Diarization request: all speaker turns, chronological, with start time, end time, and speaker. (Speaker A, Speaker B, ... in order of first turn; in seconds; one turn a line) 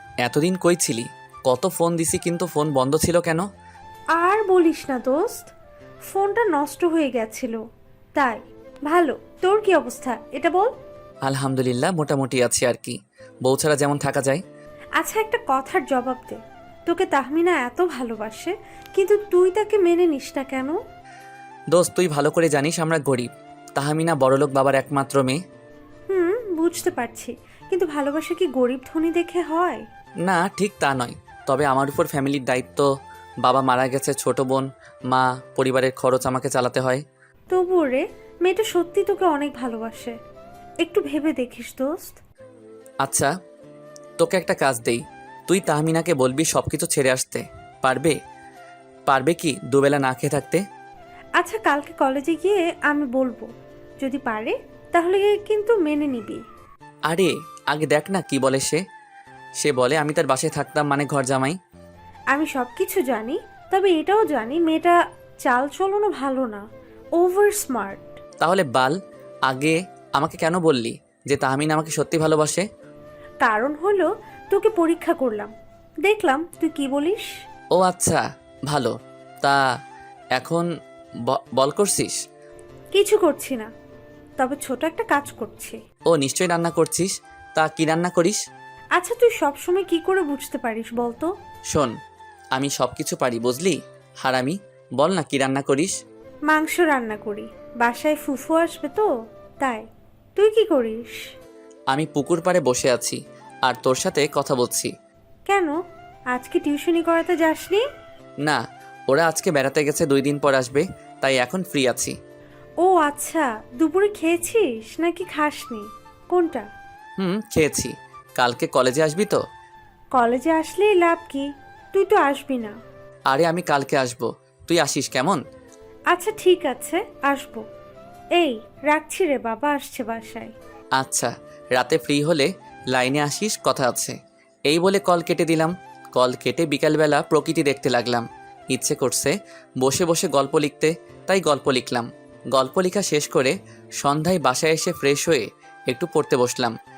Speaker A: 0.2-3.5
Speaker B: 4.2-5.5
Speaker B: 6.1-7.6
Speaker B: 8.2-10.7
Speaker A: 11.2-14.4
Speaker B: 15.0-20.8
Speaker A: 21.7-25.4
Speaker B: 26.1-29.8
Speaker A: 30.2-32.9
Speaker A: 33.4-37.0
Speaker B: 37.5-40.1
Speaker B: 40.8-42.2
Speaker A: 43.0-43.3
Speaker A: 44.2-48.1
Speaker A: 49.1-50.6
Speaker B: 51.4-53.5
Speaker B: 54.0-56.4
Speaker A: 57.1-58.8
Speaker A: 59.6-61.6
Speaker B: 62.3-66.6
Speaker B: 67.2-68.2
Speaker A: 68.4-69.0
Speaker A: 69.5-72.7
Speaker B: 73.4-75.5
Speaker B: 76.0-77.3
Speaker A: 77.8-79.6
Speaker A: 80.4-80.7
Speaker A: 81.3-82.2
Speaker B: 82.9-83.7
Speaker B: 84.4-85.8
Speaker A: 86.1-88.4
Speaker B: 89.0-91.3
Speaker A: 92.5-96.0
Speaker B: 96.5-99.1
Speaker B: 99.6-101.1
Speaker A: 101.9-104.9
Speaker B: 105.5-105.8
Speaker B: 106.3-107.8
Speaker A: 108.4-112.2
Speaker B: 112.8-116.7
Speaker A: 117.2-119.4
Speaker B: 120.1-122.8
Speaker A: 123.3-125.4
Speaker B: 126.1-127.6
Speaker B: 128.4-130.5
Speaker A: 131.0-134.2
Speaker A: 134.7-146.8